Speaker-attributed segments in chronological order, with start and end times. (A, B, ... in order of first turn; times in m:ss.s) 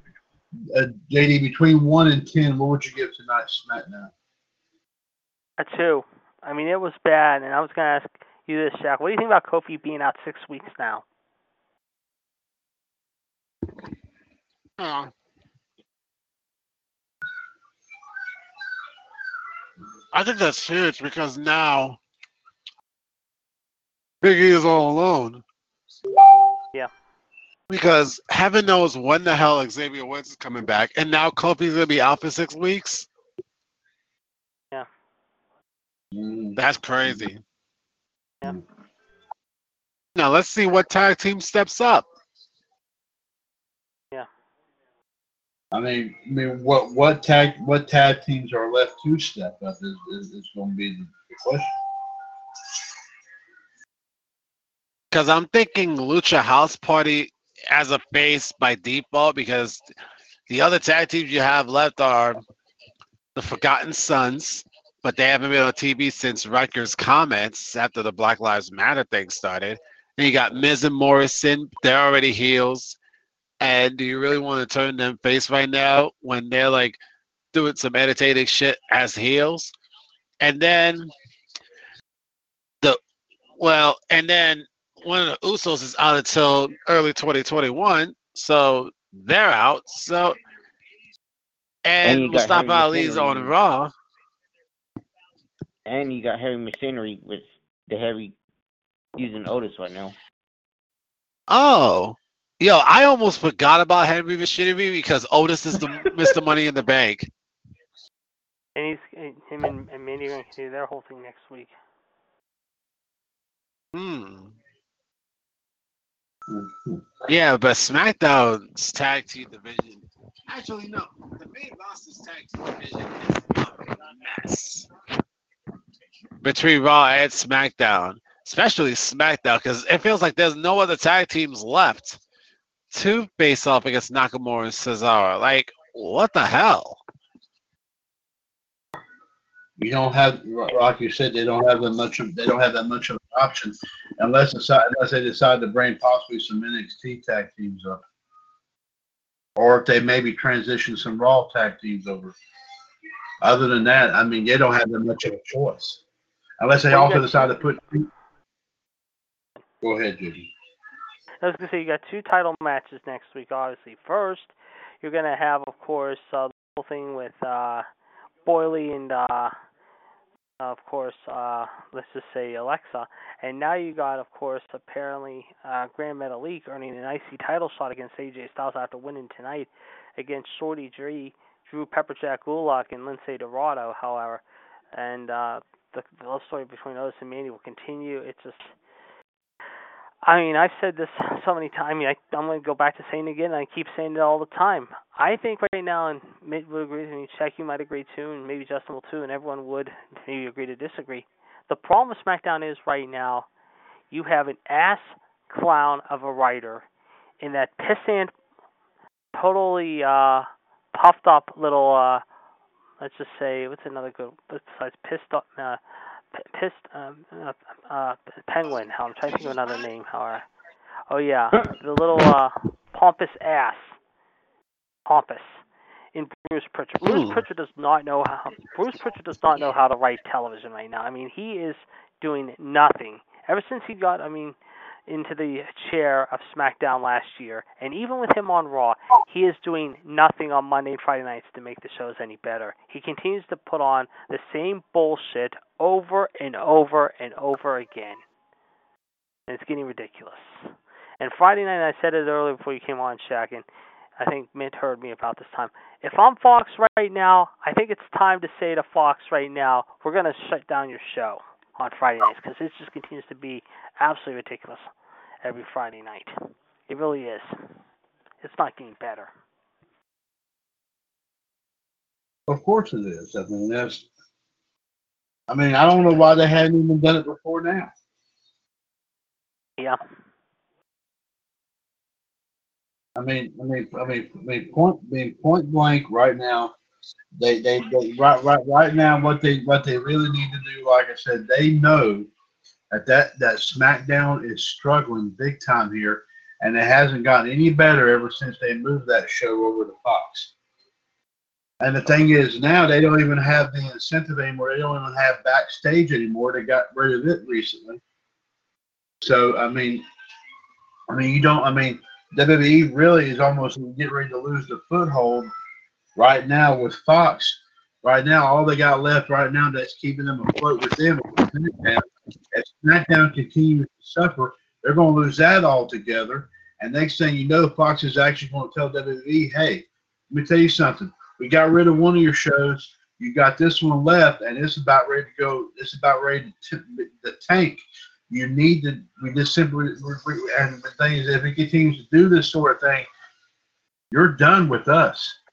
0:00.6-0:04.1 A
0:05.6-0:11.0 B
0:14.8-0:15.1 C
0:20.1-0:22.0 C
0:24.2-0:25.4 C
0:27.7-0:33.1 C
0:36.1-0:37.3 A
0:36.6-0:37.4 C
0:40.2-0:42.1 C
0:45.7-0:51.7 A
0:55.1-0:59.8 C
1:00.5-1:02.4 C
1:03.4-1:13.0 C
1:13.6-1:17.0 C
1:17.5-1:19.7 C
1:20.4-1:21.1 C
1:23.6-1:30.4 C
1:31.8-1:33.9 C
1:32.0-1:33.5 D
1:35.9-1:38.4 D
1:39.2-1:40.2 D
1:41.5-1:47.3 C
1:48.8-1:51.7 B
1:53.9-1:54.5 C
1:56.5-1:57.1 A
1:57.3-2:04.9 C
2:06.4-2:12.2 C
2:12.9-2:17.0 C
2:19.8-2:28.0 A
2:29.6-2:32.4 A
2:33.4-2:36.0 A
2:36.6-2:38.1 A
2:36.9-2:37.6 B
2:39.8-2:40.5 A
2:41.4-2:47.9 B
2:48.5-2:49.5 B
2:50.6-3:04.4 B
3:04.9-3:08.8 B
3:10.2-3:23.5 B
3:24.1-3:26.8 B
3:27.4-3:28.3 B
3:29.3-3:32.2 B
3:33.0-3:35.8 B
3:36.4-3:40.5 B
3:41.1-3:43.9 B
3:45.1-3:45.6 B
3:46.2-3:54.6 B
3:47.0-3:47.4 C
3:55.1-4:08.2 B
4:09.5-4:13.6 B
4:14.2-4:24.9 B
4:25.4-4:27.5 B
4:28.4-4:29.3 B
4:32.5-4:34.1 A
4:35.5-4:37.9 A
4:43.2-4:46.7 A
4:47.4-4:52.3 A
4:52.9-5:00.5 A
5:01.8-5:08.0 A
5:09.2-5:10.0 A
5:11.1-5:15.5 A
5:16.2-5:43.1 A
5:44.1-5:45.4 A